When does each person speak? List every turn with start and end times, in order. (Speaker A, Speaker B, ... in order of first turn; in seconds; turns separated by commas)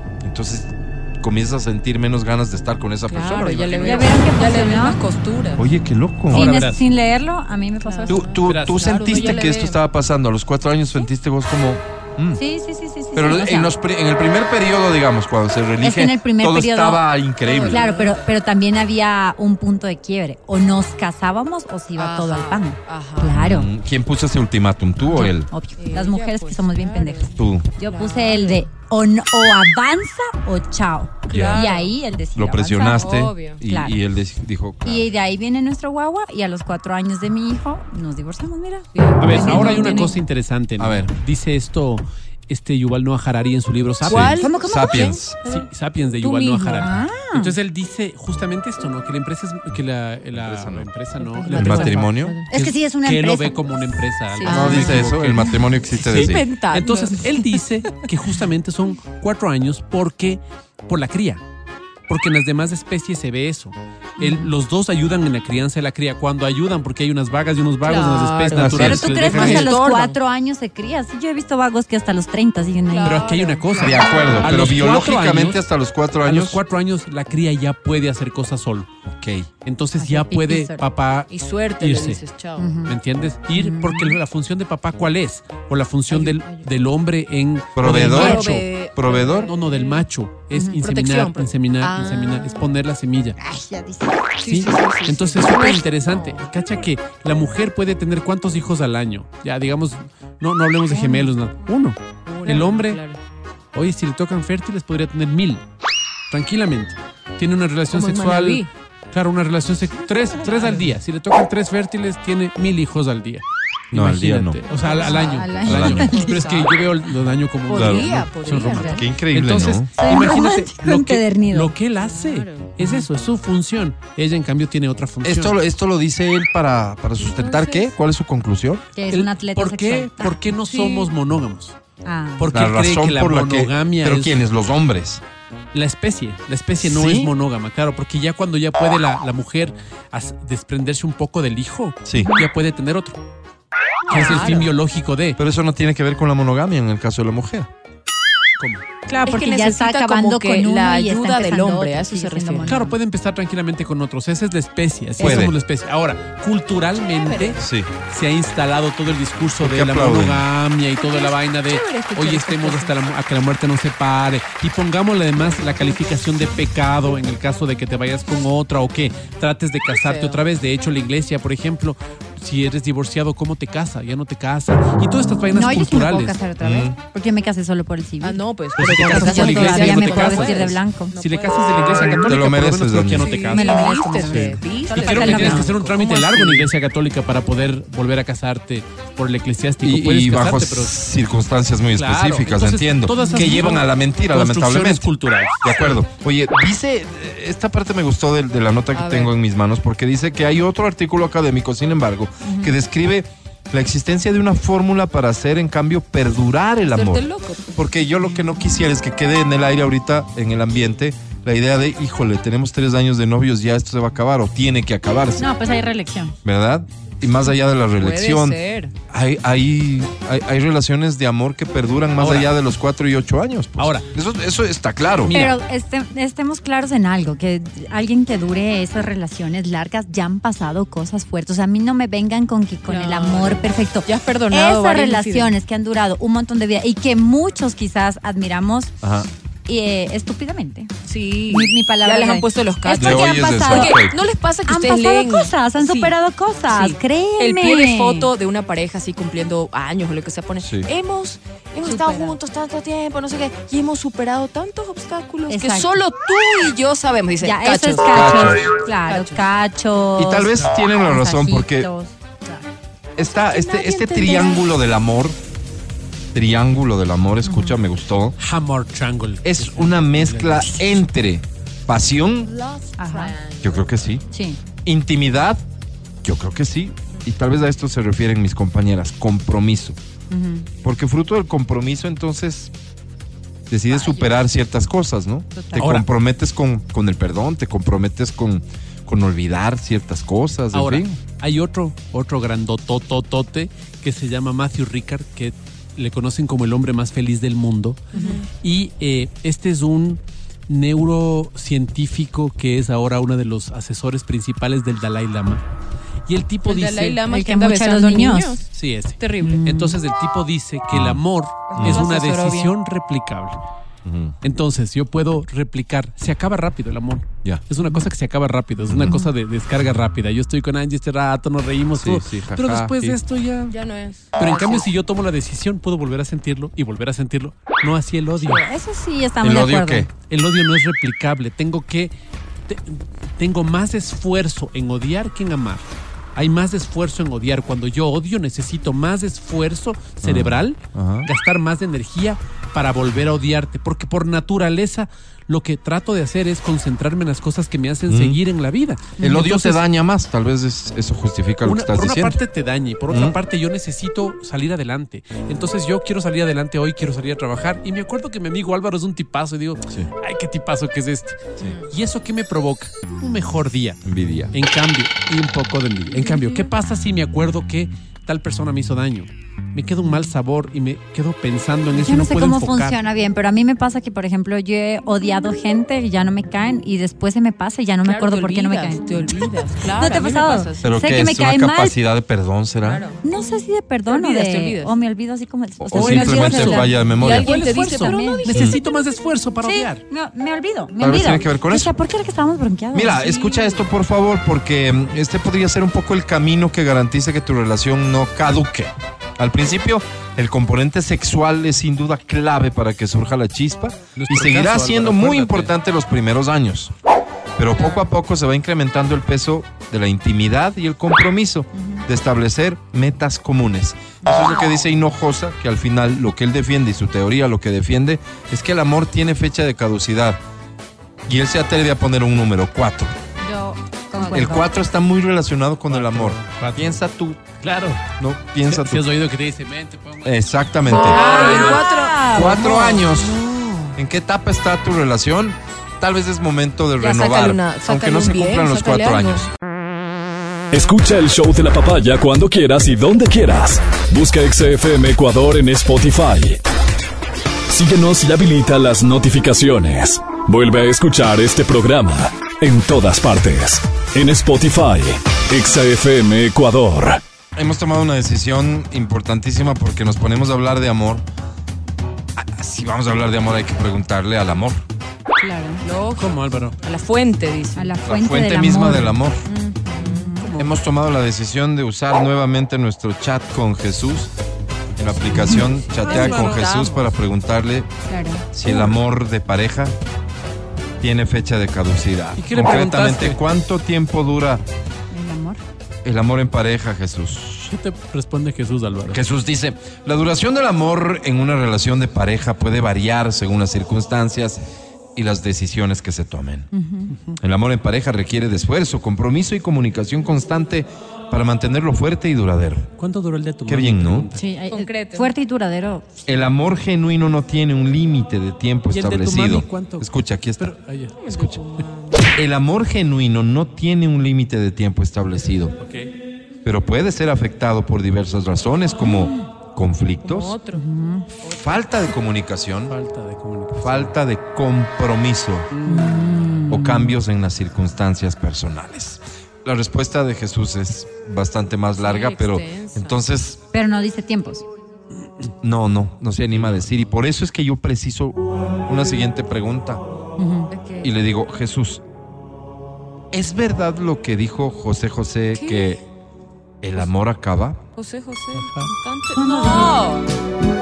Speaker A: 0.2-4.1, Speaker B: 3.1-5.7, Speaker C: 3.8-5.0, Speaker A: 5.6-6.5, Speaker D: 6.3-6.8, Speaker C: 6.3-8.3, Speaker B: 7.8-9.8, Speaker A: 8.1-12.4, Speaker D: 8.4-9.2, Speaker C: 12.3-13.7, Speaker A: 13.1-17.9, Speaker C: 15.8-17.1, Speaker B: 17.4-18.3, Speaker C: 17.6-23.7, Speaker B: 21.9-23.4, Speaker A: 23.3-25.5, Speaker C: 25.1-33.1, Speaker B: 25.8-28.6, Speaker A: 27.3-27.7, Speaker A: 31.3-31.7, Speaker B: 31.3-31.9, Speaker A: 32.3-35.1, Speaker B: 32.9-33.6, Speaker C: 33.6-34.0, Speaker C: 34.8-40.1, Speaker B: 38.9-40.2, Speaker D: 39.2-44.4, Speaker A: 40.8-41.1, Speaker A: 44.0-45.4, Speaker B: 44.0-45.7, Speaker C: 44.4-45.2, Speaker D: 45.4-61.4, Speaker B: 46.2-46.9, Speaker C: 46.8-47.5, Speaker A: 50.3-50.9, Speaker C: 51.2-51.9, Speaker B: 51.3-52.5, Speaker A: 51.5-52.4, Speaker C: 52.5-55.0, Speaker B: 54.5-55.0, Speaker A: 54.5-56.4, Speaker B: 56.0-57.5, Speaker D: 62.1-69.7, Speaker C: 64.2-64.5, Speaker B: 67.8-70.2, Speaker A: 68.5-69.3, Speaker C: 68.7-73.3, Speaker B: 72.9-74.9, Speaker D: 73.0-75.6, Speaker A: 73.8-76.6, Speaker C: 74.0-74.4, Speaker D: 76.2-78.9, Speaker A: 79.0-79.5, Speaker D: 79.6-82.2, Speaker C: 80.0-80.8, Speaker B: 81.3-82.7, Speaker C: 82.6-82.9, Speaker D: 82.8-88.7, Speaker C: 83.5-84.2, Speaker B: 86.1-86.7, Speaker A: 87.7-89.5, Speaker B: 87.8-90.0, Speaker D: 89.4-93.4, Speaker C: 90.5-90.8, Speaker B: 90.8-92.6, Speaker C: 93.4-94.3, Speaker B: 94.4-96.8, Speaker D: 94.5-103.0, Speaker B: 100.9-101.3, Speaker B: 102.2-103.2, Speaker D: 103.7-105.6, Speaker D: 106.3-125.6, Speaker B: 107.9-108.7, Speaker B: 110.4-110.9, Speaker A: 113.9-114.6, Speaker B: 114.7-117.1, Speaker C: 115.0-116.5, Speaker A: 115.6-116.1, Speaker B: 117.7-119.1, Speaker A: 117.7-118.1, Speaker C: 118.5-119.0, Speaker A: 118.8-119.9, Speaker C: 120.0-121.7, Speaker B: 122.0-122.7, Speaker A: 125.2-128.8, Speaker B: 127.2-127.9, Speaker C: 128.9-130.5, Speaker D: 129.1-131.7, Speaker B: 130.7-131.1, Speaker C: 132.0-132.6, Speaker D: 132.4-134.4, Speaker A: 132.5-135.2, Speaker D: 135.7-143.2, Speaker A: 136.8-137.3, Speaker A: 142.0-142.3, Speaker C: 142.2-142.4, Speaker B: 144.1-144.7, Speaker D: 144.1-145.4, Speaker A: 145.4-147.7, Speaker C: 149.1-152.9, Speaker B: 149.2-152.8, Speaker D: 152.6-176.4, Speaker A: 155.2-155.6, Speaker B: 157.2-157.6, Speaker A: 157.6-157.9, Speaker A: 159.6-160.5, Speaker B: 160.9-162.9, Speaker B: 169.9-170.4, Speaker C: 175.5-181.1, Speaker A: 176.6-176.9, Speaker B: 178.2-182.4, Speaker D: 178.8-191.0, Speaker A: 182.2-183.3, Speaker B: 183.2-186.7, Speaker C: 183.5-185.8, Speaker A: 189.8-195.1, Speaker D: 191.9-196.0, Speaker C: 193.2-193.5, Speaker B: 193.2-193.6, Speaker A: 195.6-215.5, Speaker B: 198.9-199.3, Speaker C: 202.4-202.7, Speaker B: 206.9-207.7, Speaker C: 215.4-216.3, Speaker A: 216.4-218.6, Speaker B: 217.9-218.9, Speaker A: 219.1-225.4, Speaker D: 222.2-222.5, Speaker D: 223.8-224.1, Speaker D: 225.2-225.6, Speaker C: 225.3-238.9, Speaker B: 232.9-235.5, Speaker A: 239.0-239.3, Speaker C: 239.7-240.9, Speaker B: 241.0-246.1, Speaker C: 241.5-244.0, Speaker A: 242.9-244.2, Speaker C: 244.7-248.3, Speaker B: 246.7-258.4, Speaker A: 250.6-250.9, Speaker C: 251.8-252.3, Speaker C: 255.5-256.0, Speaker C: 257.4-262.6, Speaker A: 258.1-258.7, Speaker B: 259.0-259.4, Speaker A: 260.2-261.9, Speaker A: 263.1-265.4, Speaker B: 263.3-264.7, Speaker A: 266.3-268.4, Speaker C: 267.4-267.8, Speaker D: 268.4-271.0, Speaker A: 269.4-272.5, Speaker B: 272.4-274.1, Speaker C: 273.0-273.3, Speaker A: 273.6-274.2, Speaker C: 274.3-274.6, Speaker A: 274.8-275.6, Speaker A: 276.2-280.0, Speaker C: 280.3-280.7, Speaker A: 280.8-282.7, Speaker A: 283.7-291.1, Speaker B: 283.9-284.3, Speaker C: 285.6-285.9, Speaker D: 285.8-286.1, Speaker D: 290.7-305.6, Speaker C: 298.1-298.4, Speaker B: 298.1-298.5, Speaker D: 306.3-307.2, Speaker B: 306.6-309.6, Speaker C: 307.3-308.6, Speaker D: 308.7-313.6, Speaker C: 309.4-310.0, Speaker A: 310.9-311.2, Speaker B: 311.7-312.7, Speaker A: 311.8-312.1, Speaker A: 314.0-314.4, Speaker D: 314.4-323.8, Speaker A: 318.9-319.2, Speaker C: 319.0-319.3, Speaker A: 321.9-323.2, Speaker B: 323.7-324.9, Speaker D: 324.4-328.6, Speaker C: 328.4-330.1, Speaker A: 329.4-330.1, Speaker D: 330.2-332.1, Speaker D: 332.7-335.8, Speaker D: 336.3-349.8, Speaker A: 340.2-341.3, Speaker A: 348.1-348.4, Speaker A: 349.2-352.4, Speaker D: 351.6-373.0, Speaker A: 353.1-353.4, Speaker B: 361.6-361.9, Speaker A: 364.0-364.5, Speaker B: 366.2-366.6, Speaker C: 371.9-381.9, Speaker B: 378.0-380.9, Speaker A: 380.8-383.0, Speaker B: 382.8-383.2, Speaker C: 383.2-388.5, Speaker B: 384.1-384.9, Speaker A: 385.8-387.5, Speaker D: 385.9-390.0, Speaker B: 387.1-388.7, Speaker A: 388.5-388.8, Speaker C: 389.6-393.3, Speaker A: 391.0-391.9, Speaker A: 392.9-406.9, Speaker B: 393.1-393.8, Speaker D: 404.1-405.7, Speaker A: 407.6-420.4, Speaker B: 407.7-408.1, Speaker B: 414.4-414.8, Speaker A: 421.2-423.1, Speaker C: 423.4-424.7, Speaker B: 424.2-424.4, Speaker A: 424.3-427.4, Speaker D: 425.9-427.0, Speaker D: 427.6-428.1, Speaker A: 428.2-429.0, Speaker D: 428.6-431.8, Speaker A: 430.2-433.4, Speaker B: 430.9-434.0, Speaker C: 431.2-432.5, Speaker A: 433.9-439.5, Speaker B: 437.0-439.4, Speaker E: 440.7-446.6, Speaker E: 447.7-457.2, Speaker A: 457.6-461.2, Speaker A: 462.4-464.8, Speaker C: 465.4-465.8, Speaker B: 465.8-467.9, Speaker D: 466.1-466.8, Speaker C: 467.8-470.5, Speaker A: 468.0-469.4, Speaker B: 469.7-470.3, Speaker D: 470.4-470.7, Speaker A: 470.6-474.3, Speaker A: 474.9-477.9, Speaker C: 475.3-475.6, Speaker D: 475.5-476.8, Speaker B: 476.0-477.1, Speaker C: 478.1-478.9, Speaker A: 478.5-479.9, Speaker A: 481.0-484.6, Speaker D: 482.4-483.4, Speaker C: 485.1-485.6, Speaker A: 486.0-487.7, Speaker D: 487.7-489.2, Speaker A: 489.1-494.6, Speaker A: 495.1-496.7, Speaker C: 496.7-497.1, Speaker D: 497.1-497.4, Speaker A: 497.4-502.9, Speaker D: 503.0-504.5, Speaker A: 503.6-504.3, Speaker C: 504.3-506.2, Speaker B: 504.7-505.3, Speaker A: 506.3-510.7, Speaker D: 508.9-511.2, Speaker B: 511.2-512.3, Speaker A: 511.3-511.6, Speaker A: 512.3-515.7, Speaker D: 515.8-516.1, Speaker A: 516.6-520.6, Speaker C: 519.0-519.4, Speaker B: 520.2-520.9, Speaker C: 520.7-521.2, Speaker B: 521.4-521.8, Speaker A: 521.5-523.0, Speaker D: 522.9-524.1, Speaker A: 523.8-525.7, Speaker D: 525.7-526.5, Speaker C: 525.9-527.1, Speaker A: 526.7-533.6, Speaker B: 531.9-533.2, Speaker C: 533.7-534.6, Speaker A: 535.6-540.0, Speaker D: 536.5-537.0, Speaker C: 540.4-540.7, Speaker B: 540.7-541.1, Speaker A: 541.0-542.0, Speaker A: 543.3-546.0, Speaker B: 545.5-546.0, Speaker A: 546.8-547.8, Speaker B: 548.0-550.3, Speaker D: 548.5-548.9, Speaker C: 549.3-550.0